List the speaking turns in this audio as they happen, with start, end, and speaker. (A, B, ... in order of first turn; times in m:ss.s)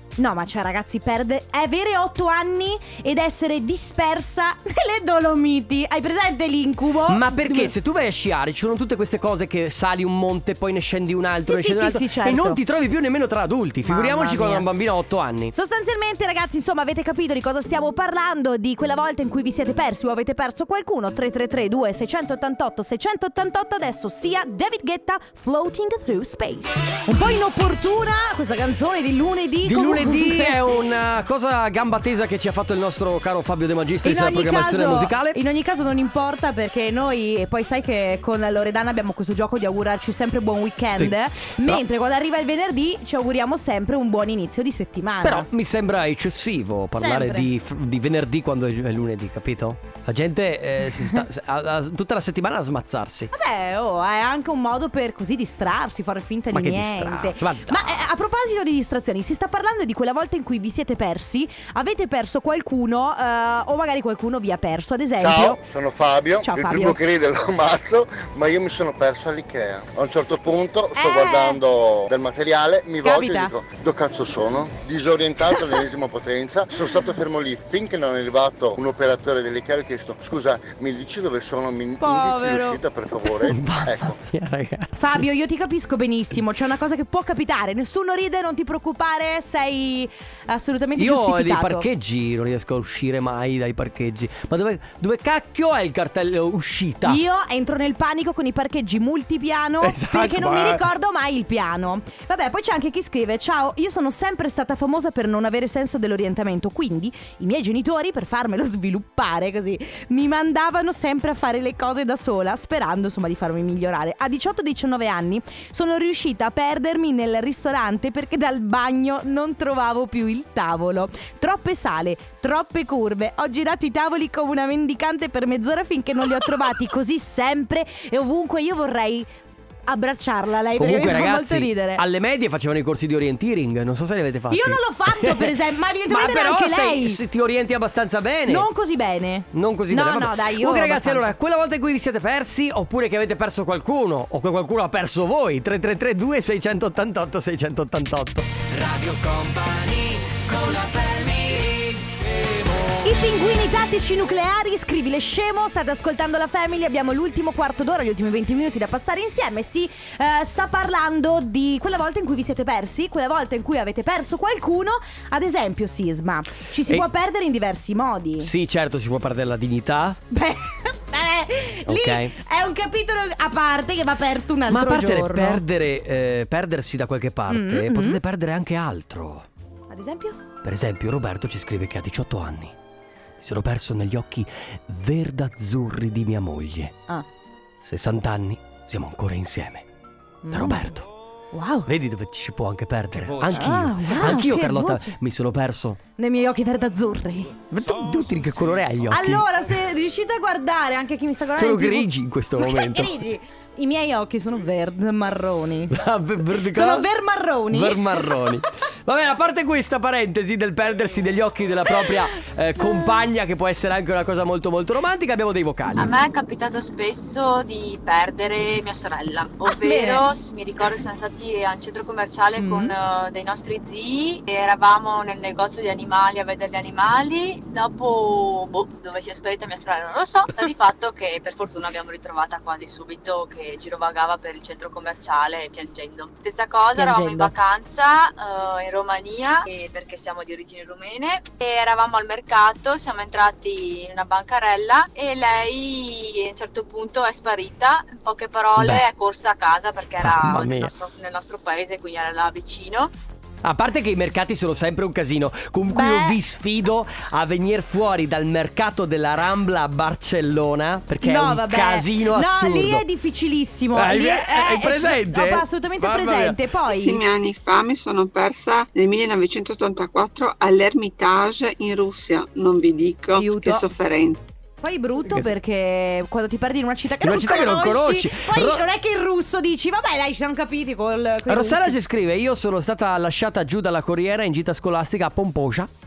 0:00.2-0:07.7 A
0:07.1-0:15.5 B
0:11.4-0:12.6 A
0:13.8-0:14.7 A
0:15.5-0:30.6 A
0:29.6-0:35.4 B
0:34.0-0:45.5 A
0:41.0-0:41.8 B
0:45.2-0:53.3 B
0:47.0-0:47.5 A
0:53.3-1:05.6 A
0:56.5-0:58.0 B
1:05.2-1:24.2 C
1:06.4-1:07.0 A
1:11.0-1:11.6 A
1:13.0-1:13.5 A
1:22.0-1:22.8 A
1:23.4-1:25.2 B
1:24.9-1:31.8 A
1:31.0-1:37.2 B
1:37.0-2:09.3 A
1:39.8-1:40.8 B
2:09.9-2:12.0 A
2:10.7-2:18.7 B
2:14.5-2:17.2 A
2:18.5-2:21.4 A
2:19.5-2:33.1 B
2:33.0-2:48.5 A
2:48.4-2:50.2 B
2:50.3-2:55.6 A
2:51.9-2:52.3 B
2:54.7-2:59.5 B
2:57.5-2:58.2 A
2:59.9-3:00.4 A
3:00.6-3:02.7 B
3:03.4-3:07.0 B
3:07.8-3:09.8 B
3:10.4-3:10.9 A
3:10.5-3:11.1 B
3:11.5-3:11.9 A
3:11.8-3:16.0 B
3:13.4-3:15.2 A
3:16.2-3:17.6 A
3:17.7-3:19.5 B
3:19.1-3:25.9 A
3:21.6-3:23.1 B
3:25.9-3:27.1 B
3:26.7-3:28.3 A
3:27.7-3:36.1 B
3:35.9-4:13.1 D
3:39.7-3:40.3 A
3:42.6-3:42.9 A
3:57.0-3:57.5 A
4:08.8-4:09.0 B
4:10.2-4:10.9 B
4:13.6-4:23.0 B
4:15.9-4:16.4 A
4:21.2-4:27.2 A
4:23.9-4:26.6 B
4:26.8-4:34.4 E
4:33.4-4:33.8 A
4:34.8-4:42.0 A
4:37.2-4:38.8 B
4:41.5-4:45.9 B